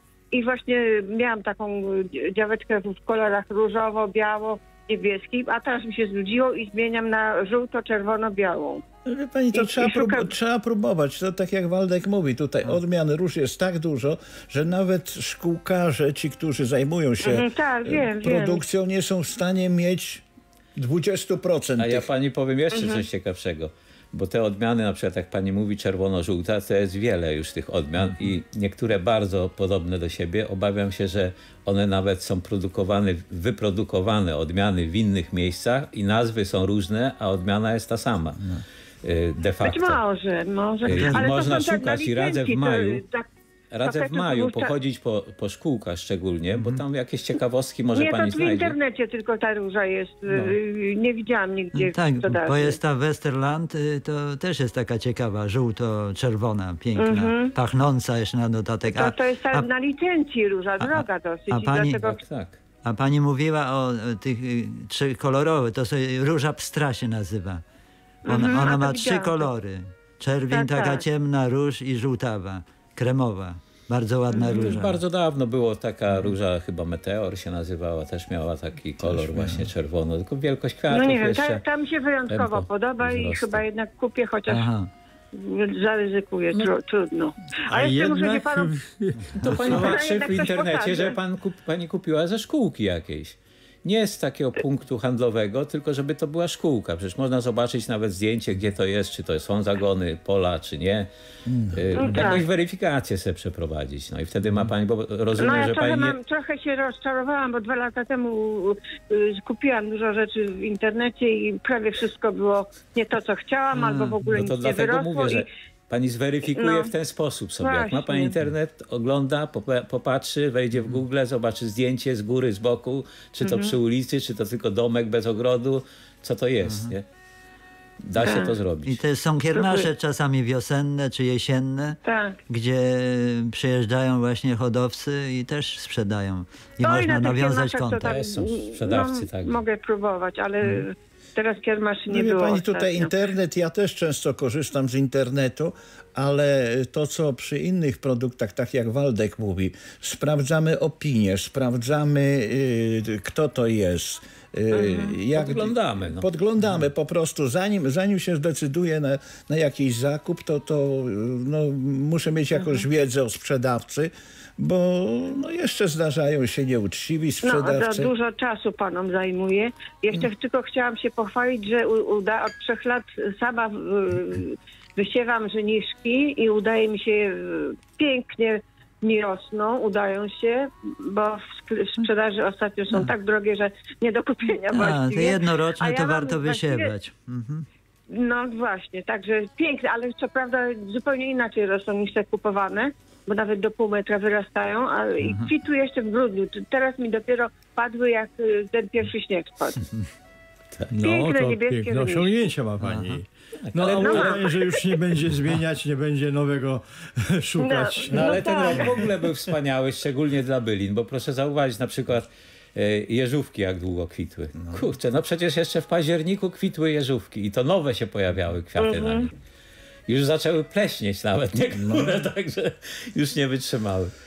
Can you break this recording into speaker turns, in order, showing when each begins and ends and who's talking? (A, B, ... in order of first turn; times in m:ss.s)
0:00.3-0:08.8 A
0:09.1-0:22.1 B
0:09.5-0:10.3 A
0:17.2-0:18.6 A
0:21.8-0:38.4 C
0:22.7-0:23.0 A
0:39.0-0:40.0 C
0:39.6-0:43.3 A
0:40.8-0:43.0 C
0:40.9-0:41.4 D
0:43.7-0:48.8 C
0:43.8-0:44.7 A
0:46.6-0:46.8 D
0:48.0-0:52.8 A
0:50.3-0:50.6 C
0:51.7-0:59.7 D
0:57.0-0:57.6 A
0:58.9-1:02.2 A
1:00.8-1:02.0 D
1:02.0-1:02.6 C
1:02.8-1:07.6 D
1:08.3-1:09.5 A
1:08.3-1:15.0 D
1:10.5-1:11.0 A
1:14.3-1:14.7 A
1:14.4-1:21.6 C
1:20.9-1:24.7 A
1:22.3-1:23.6 C
1:24.5-1:24.9 D
1:25.3-1:28.7 A
1:27.7-1:29.4 E
1:29.4-1:41.1 C
1:29.5-1:31.2 A
1:41.5-1:42.0 B
1:41.7-1:46.2 C
1:42.0-1:42.5 A
1:45.4-1:55.5 A
1:53.7-1:54.2 D
1:54.3-2:07.0 C
1:56.5-1:56.9 A
1:57.6-1:58.3 A
2:03.4-2:03.8 A
2:06.6-2:06.9 D
2:08.0-2:09.0 C
2:08.2-2:08.5 A
2:08.8-2:18.2 D
2:09.6-2:09.9 A
2:12.0-2:12.4 A
2:16.8-2:23.1 A
2:18.0-2:19.6 C
2:22.1-2:48.1 B
2:34.7-2:35.2 A
2:35.3-2:36.3 C
2:47.4-3:06.9 A
3:04.7-3:07.7 D
3:08.1-3:19.8 A
3:15.2-3:15.5 D
3:20.9-3:28.4 E
3:21.0-3:22.3 A
3:22.8-3:23.2 D
3:23.6-3:24.4 C
3:24.0-3:25.0 A
3:27.6-3:29.2 A
3:28.1-3:39.3 C
3:38.8-3:39.3 A
3:40.1-3:44.1 C
3:41.7-3:42.2 B